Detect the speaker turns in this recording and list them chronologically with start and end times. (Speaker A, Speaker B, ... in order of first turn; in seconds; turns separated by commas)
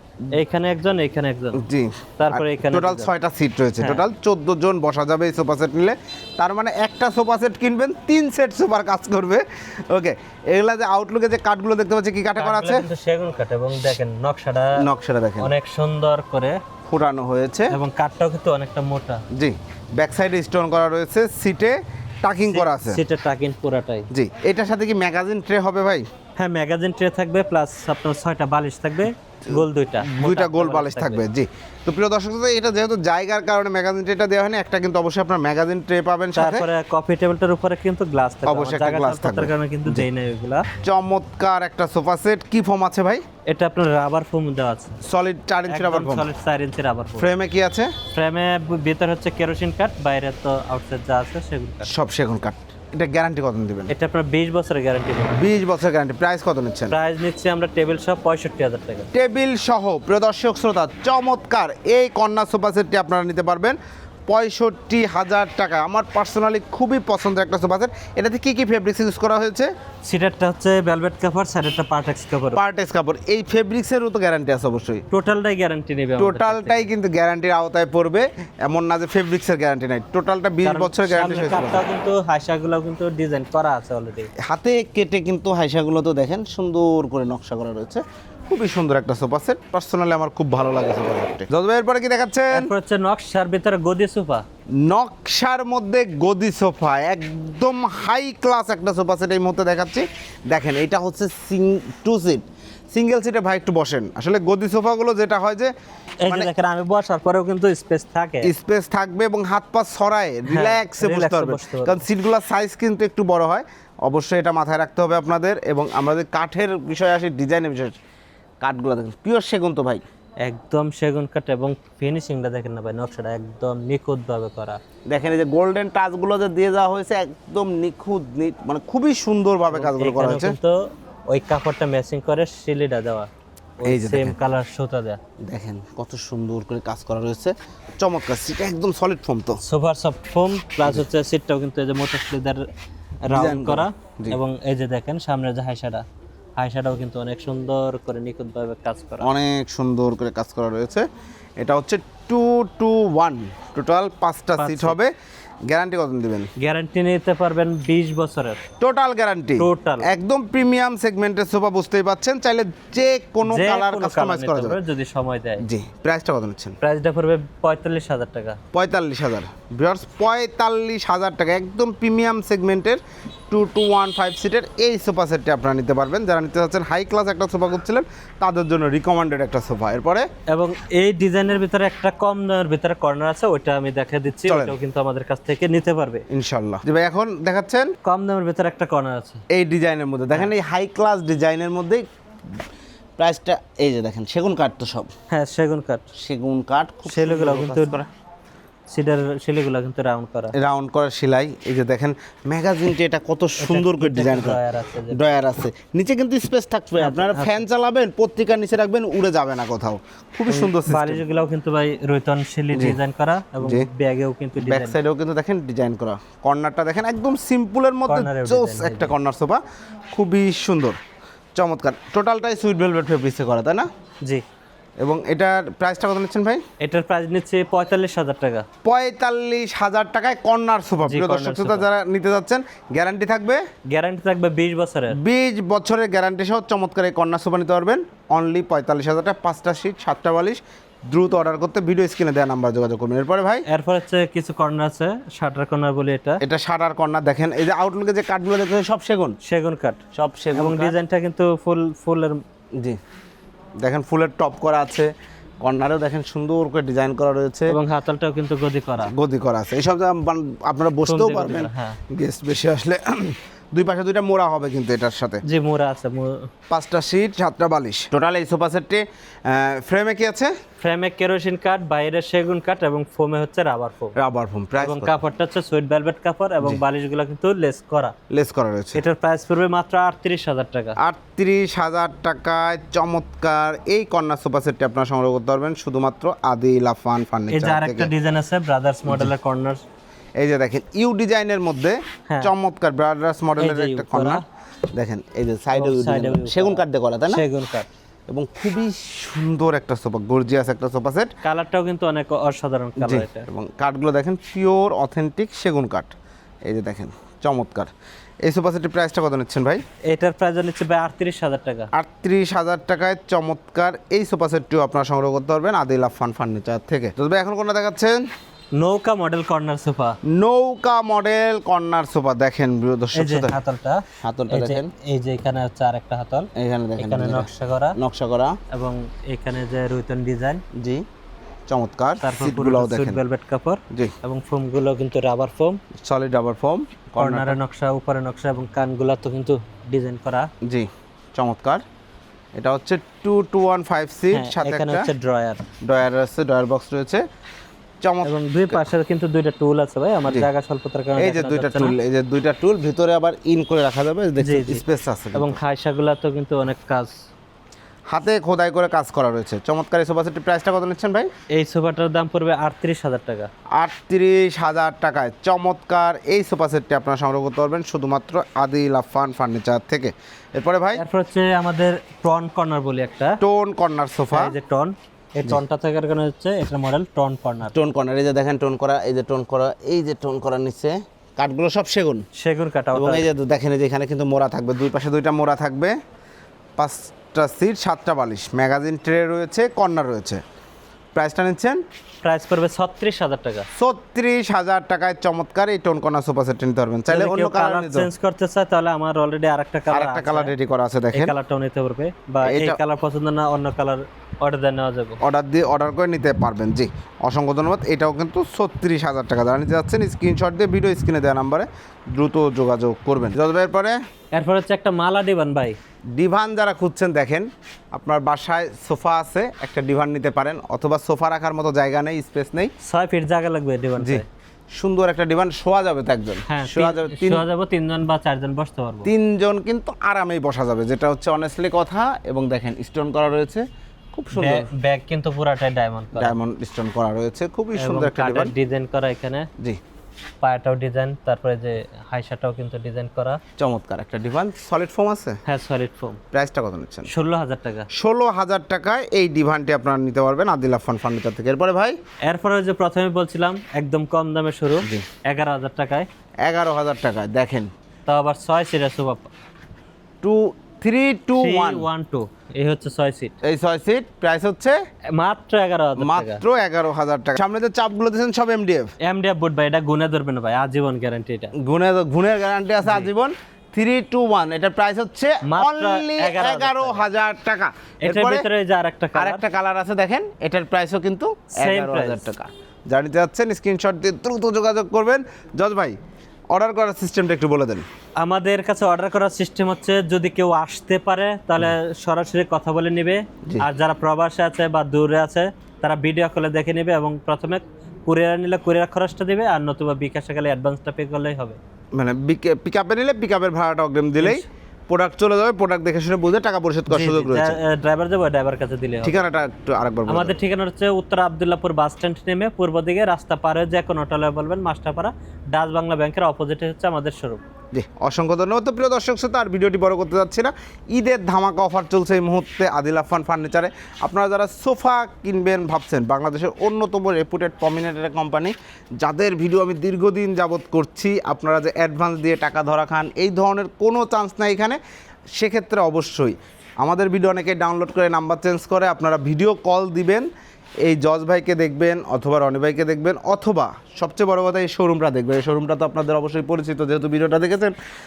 Speaker A: 0.3-1.6, Speaker B: 1.5-12.9, Speaker A: 2.2-3.1, Speaker A: 3.8-4.0, Speaker A: 12.4-14.9, Speaker B: 14.8-15.5, Speaker A: 15.4-16.6, Speaker B: 16.9-17.8, Speaker A: 17.7-19.2, Speaker B: 19.3-23.0, Speaker A: 22.5-24.1, Speaker B: 24.1-26.1, Speaker A: 26.4-31.2, Speaker B: 29.5-36.7, Speaker A: 36.3-40.6, Speaker B: 38.5-40.0, Speaker B: 40.8-43.2, Speaker A: 43.5-44.9, Speaker B: 45.0-46.3, Speaker A: 45.7-47.3, Speaker B: 47.2-47.9, Speaker A: 48.1-51.9, Speaker B: 51.8-53.9, Speaker A: 53.9-55.5, Speaker B: 55.4-57.0, Speaker A: 56.9-59.1, Speaker B: 59.1-69.7, Speaker A: 70.0-72.6, Speaker B: 72.5-75.0, Speaker A: 75.1-76.9, Speaker B: 76.2-81.9, Speaker A: 80.6-84.3, Speaker B: 84.4-92.7, Speaker A: 92.5-94.4, Speaker B: 94.8-105.7, Speaker A: 106.2-108.5, Speaker B: 108.4-117.9, Speaker A: 110.5-112.0, Speaker B: 118.6-120.0, Speaker A: 120.4-124.8, Speaker B: 125.1-130.6, Speaker A: 129.7-133.3, Speaker A: 133.8-135.2, Speaker B: 133.8-134.4, Speaker B: 135.4-139.6, Speaker A: 139.6-142.7, Speaker A: 143.2-146.0, Speaker B: 143.3-144.4, Speaker A: 146.6-149.3, Speaker B: 149.2-151.1, Speaker B: 151.6-155.1, Speaker A: 154.6-155.0, Speaker B: 155.7-156.5, Speaker A: 156.6-158.6, Speaker B: 158.8-164.8, Speaker A: 159.6-160.1, Speaker A: 163.4-165.6, Speaker B: 165.6-166.8, Speaker A: 166.8-168.6, Speaker B: 168.7-180.3, Speaker A: 180.5-186.2, Speaker B: 184.4-184.8, Speaker B: 186.3-187.9, Speaker A: 188.0-189.4, Speaker B: 189.5-192.6, Speaker B: 193.2-195.1, Speaker A: 195.3-196.1, Speaker B: 196.1-198.1, Speaker A: 197.1-197.9, Speaker A: 198.9-200.5, Speaker B: 200.5-211.2, Speaker A: 203.6-205.4, Speaker A: 207.0-207.6, Speaker A: 210.5-214.9, Speaker B: 212.7-213.0, Speaker B: 213.6-213.9, Speaker B: 214.6-219.6, Speaker A: 218.1-219.1, Speaker B: 220.1-221.0, Speaker B: 221.6-223.9, Speaker B: 225.0-226.6, Speaker A: 226.8-228.7, Speaker B: 228.8-233.6, Speaker A: 231.0-231.9, Speaker A: 233.9-235.2, Speaker B: 235.1-243.6, Speaker A: 243.7-246.4, Speaker B: 246.4-249.4, Speaker A: 249.4-250.0, Speaker B: 250.1-251.0, Speaker A: 250.5-252.4, Speaker B: 253.8-255.1, Speaker B: 255.6-257.8, Speaker A: 257.7-259.1, Speaker B: 259.1-265.4, Speaker A: 261.1-262.0, Speaker A: 265.4-266.5, Speaker B: 266.7-270.5, Speaker A: 270.8-274.1, Speaker B: 274.1-275.1, Speaker A: 274.8-278.1, Speaker B: 278.3-279.0, Speaker A: 278.9-281.0, Speaker B: 281.0-288.1, Speaker A: 287.5-289.8, Speaker B: 289.1-289.3, Speaker B: 290.4-294.4, Speaker A: 293.6-294.4, Speaker B: 294.9-297.4, Speaker A: 295.7-297.9, Speaker B: 298.3-301.3, Speaker A: 301.4-303.5, Speaker B: 303.0-306.1, Speaker B: 306.7-307.9, Speaker B: 308.4-309.8, Speaker A: 310.1-311.9, Speaker B: 311.9-318.2, Speaker A: 318.8-320.2, Speaker B: 320.3-323.6, Speaker A: 323.1-328.0, Speaker B: 324.2-324.9, Speaker B: 326.6-328.6, Speaker A: 328.7-330.6, Speaker B: 330.8-331.0, Speaker B: 331.7-333.2, Speaker A: 332.2-335.8, Speaker B: 336.0-337.6, Speaker A: 337.2-340.5, Speaker B: 340.6-341.8, Speaker B: 342.6-345.1, Speaker A: 344.3-345.6, Speaker B: 345.8-347.2, Speaker B: 348.0-348.8, Speaker A: 348.2-351.9, Speaker B: 351.2-355.6, Speaker A: 354.4-354.8, Speaker A: 355.3-357.1, Speaker B: 358.1-361.3, Speaker A: 361.5-363.5, Speaker B: 363.8-371.0, Speaker A: 370.9-373.4, Speaker B: 373.4-374.5, Speaker A: 374.3-377.7, Speaker B: 377.7-382.2, Speaker A: 382.4-383.2, Speaker B: 382.9-385.9, Speaker B: 386.8-390.4, Speaker B: 391.1-391.8, Speaker A: 392.2-393.6, Speaker B: 393.8-398.1, Speaker A: 397.1-400.5, Speaker B: 399.9-401.3, Speaker A: 401.1-405.2, Speaker B: 402.4-402.8, Speaker B: 405.2-414.0, Speaker A: 414.3-415.8, Speaker B: 416.1-422.7, Speaker A: 422.8-424.2, Speaker B: 424.0-424.2, Speaker B: 424.8-427.4, Speaker A: 426.5-429.1, Speaker B: 429.0-434.7, Speaker A: 434.3-436.4, Speaker B: 436.1-438.5, Speaker A: 437.8-439.5, Speaker A: 440.4-443.4, Speaker B: 443.6-445.4, Speaker A: 445.5-446.2, Speaker B: 446.3-447.1, Speaker A: 447.1-447.9, Speaker B: 447.9-452.0, Speaker A: 452.2-456.1, Speaker B: 456.4-457.7, Speaker A: 458.1-459.3, Speaker B: 460.2-461.9, Speaker A: 461.4-463.3, Speaker B: 463.4-464.8, Speaker A: 465.1-466.4, Speaker B: 466.0-468.9, Speaker A: 469.0-471.5, Speaker B: 471.6-478.5, Speaker A: 472.8-473.1, Speaker A: 475.4-477.1, Speaker A: 478.0-479.4, Speaker B: 479.1-486.0, Speaker A: 481.5-482.3, Speaker B: 486.5-487.8, Speaker A: 488.2-501.6, Speaker B: 501.9-507.6, Speaker A: 504.2-504.4, Speaker A: 506.9-509.2, Speaker B: 509.0-510.4, Speaker A: 510.1-517.4, Speaker B: 517.7-534.8, Speaker B: 535.4-540.3, Speaker B: 540.8-547.7